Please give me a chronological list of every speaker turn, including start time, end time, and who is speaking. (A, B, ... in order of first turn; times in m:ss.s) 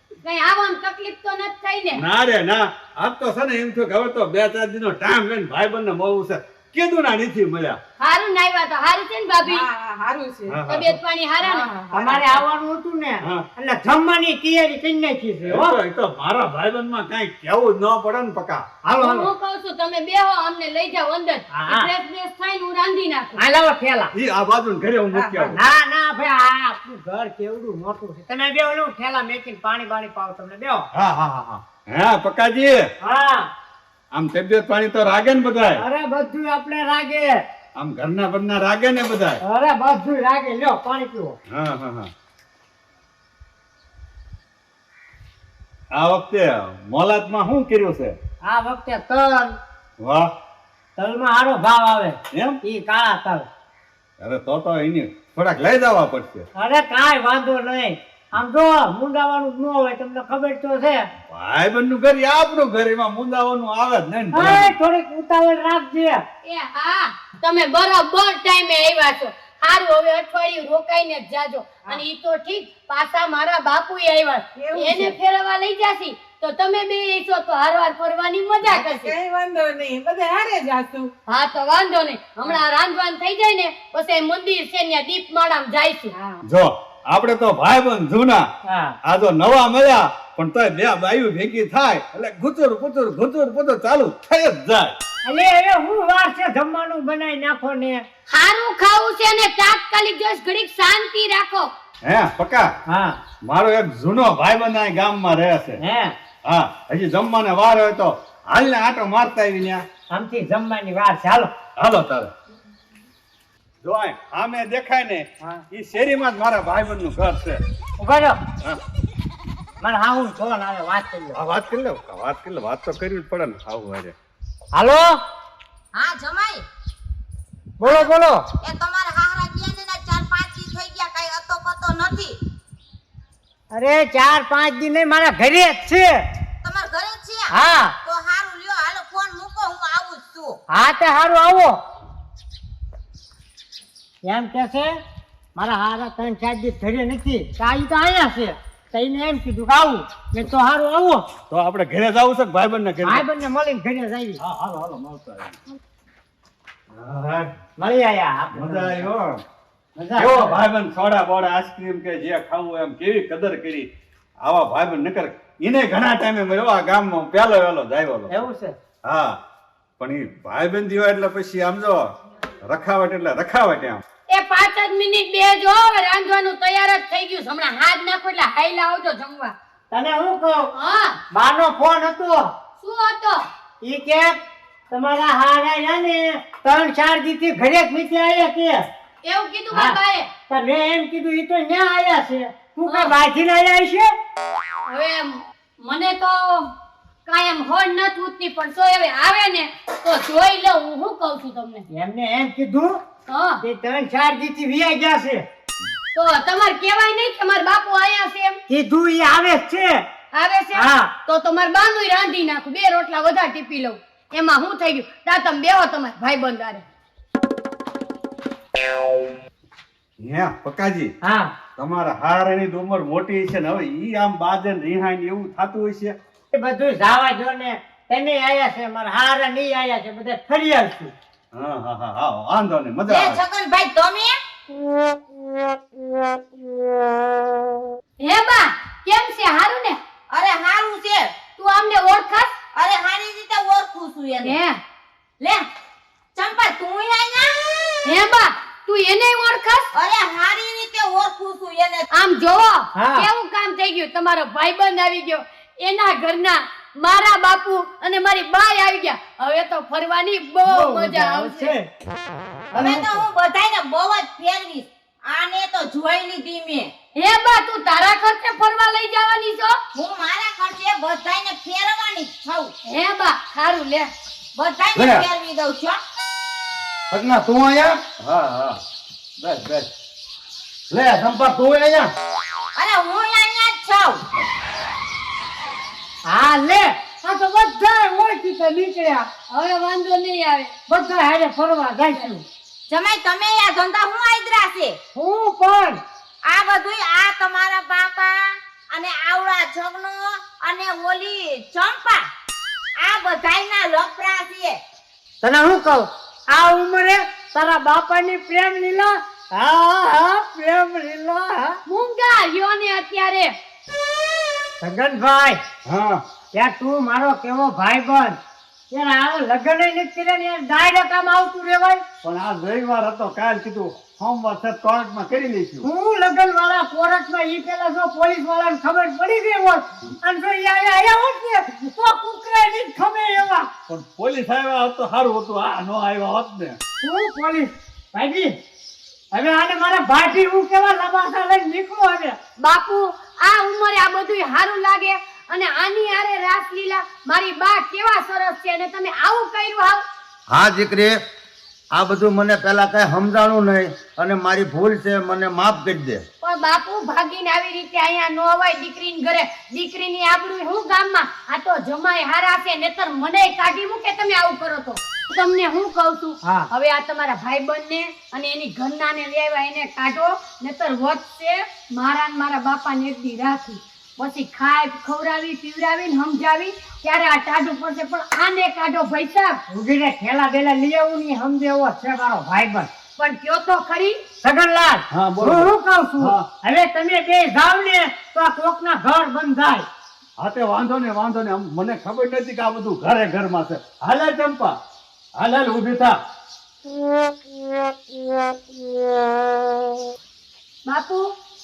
0:00.2-0:02.0 A
0:01.9-0:07.8 B
0:08.0-0:09.7 A
0:09.4-0:10.6 C
0:10.5-0:11.0 B
0:10.7-0:11.7 A
0:11.5-0:12.4 C
0:11.9-0:15.8 D
0:15.4-0:18.8 B
0:18.8-0:19.3 D
0:19.0-0:23.4 A
0:21.5-0:21.9 D
0:23.3-0:24.1 D
0:24.1-0:25.6 B
0:25.1-0:25.5 C
0:25.5-0:30.9 D
0:30.9-0:32.8 B
0:33.0-0:33.5 D
0:34.1-0:35.8 B
0:35.8-0:37.4 D
0:37.8-0:39.4 B
0:39.4-0:41.4 D
0:41.5-0:42.1 B
0:45.9-0:48.2 B
0:48.5-0:49.5 D
0:50.0-0:50.3 B
0:51.0-0:53.5 D
0:52.3-0:52.6 B
0:54.2-0:56.4 B
0:56.6-1:01.0 D
1:01.3-1:04.7 B
1:04.3-1:06.2 D
1:06.4-1:19.1 A
1:14.5-1:15.1 C
1:18.6-1:21.1 C
1:21.3-1:26.4 A
1:26.4-1:28.4 B
1:28.7-1:28.9 D
1:29.0-1:34.9 B
1:35.2-1:38.0 D
1:38.3-1:41.7 A
1:42.0-1:42.7 B
1:42.9-1:43.2 D
1:43.4-1:45.8 B
1:45.8-1:46.1 D
1:46.4-1:49.8 B
1:50.1-1:51.5 D
1:51.8-1:52.3 B
1:53.8-1:57.6 B
1:58.0-1:58.4 D
1:59.8-2:01.4 D
2:01.3-2:04.1 B
2:04.7-2:05.2 D
2:05.9-2:06.6 E
2:07.8-2:08.4 D
2:08.6-2:12.4 E
2:13.7-2:16.1 D
2:16.6-2:20.6 E
2:17.5-2:17.9 D
2:20.7-2:21.7 D
2:24.2-2:24.9 D
2:25.6-2:31.2 D
2:31.5-2:33.2 B
2:33.0-2:34.4 D
2:34.4-2:35.6 B
2:36.9-2:37.5 B
2:37.8-2:39.1 D
2:38.5-2:39.4 B
2:40.0-2:40.6 D
2:40.2-2:43.9 B
2:44.4-2:48.4 B
2:48.3-2:48.8 D
2:49.0-2:49.4 B
2:50.0-2:52.1 B
2:52.6-2:54.0 B
2:54.3-2:59.5 A
2:59.9-3:00.7 D
3:00.8-3:01.2 A
3:01.3-3:02.5 D
3:02.8-3:03.4 A
3:03.8-3:04.4 D
3:04.9-3:08.9 D
3:09.2-3:10.3 A
3:09.7-3:14.1 D
3:12.9-3:13.1 A
3:14.9-3:16.7 A
3:17.3-3:21.8 A
3:21.9-3:23.0 D
3:23.3-3:23.6 A
3:23.6-3:25.4 D
3:26.1-3:28.6 A
3:28.7-3:30.0 D
3:30.3-3:36.8 A
3:30.7-3:31.1 D
3:40.2-3:41.1 B
3:41.2-3:41.5 D
3:41.8-3:46.2 B
3:46.5-3:51.1 D
3:51.5-3:53.4 B
3:53.1-3:54.3 E
3:58.2-4:00.0 A
4:00.3-4:01.3 E
4:01.6-4:02.5 A
4:02.7-4:04.6 E
4:04.4-4:04.8 A
4:05.4-4:05.7 E
4:06.3-4:07.5 E
4:08.0-4:09.9 A
4:09.9-4:12.1 E
4:12.1-4:21.7 A
4:12.9-4:13.3 D
4:20.6-4:21.9 D
4:22.7-4:23.2 D
4:22.8-4:26.9 E
4:27.1-4:29.7 A
4:29.9-4:32.7 E
4:32.8-4:34.1 A
4:34.6-4:36.0 E
4:34.9-4:35.2 F
4:37.1-4:38.1 F
4:38.2-4:38.7 B
4:39.4-4:39.8 B
4:40.9-4:42.1 F
4:42.7-4:44.2 E
4:46.2-4:49.3 D
4:49.5-4:50.7 A
4:50.9-4:52.4 D
4:52.9-4:55.0 E
4:55.1-4:56.0 D
4:56.5-5:02.3 E
5:03.0-5:04.8 E
5:05.4-5:11.8 D
5:11.9-5:13.5 A
5:14.8-5:15.6 D
5:15.8-5:16.2 B
5:16.5-5:18.4 D
5:18.9-5:22.0 D
5:22.2-5:25.8 B
5:25.8-5:33.7 D
5:33.9-5:36.8 B
5:37.0-5:38.5 D
5:39.3-5:42.4 D
5:42.6-5:50.0 A
5:50.5-5:51.2 F
5:51.9-5:56.2 F
5:56.4-6:19.6 A
6:06.4-6:06.7 D
6:19.7-6:22.9 D
6:23.2-6:24.2 A
6:24.4-6:29.8 D
6:25.1-6:26.4 B
6:30.4-6:34.8 B
6:35.4-6:36.2 B
6:40.8-6:41.3 A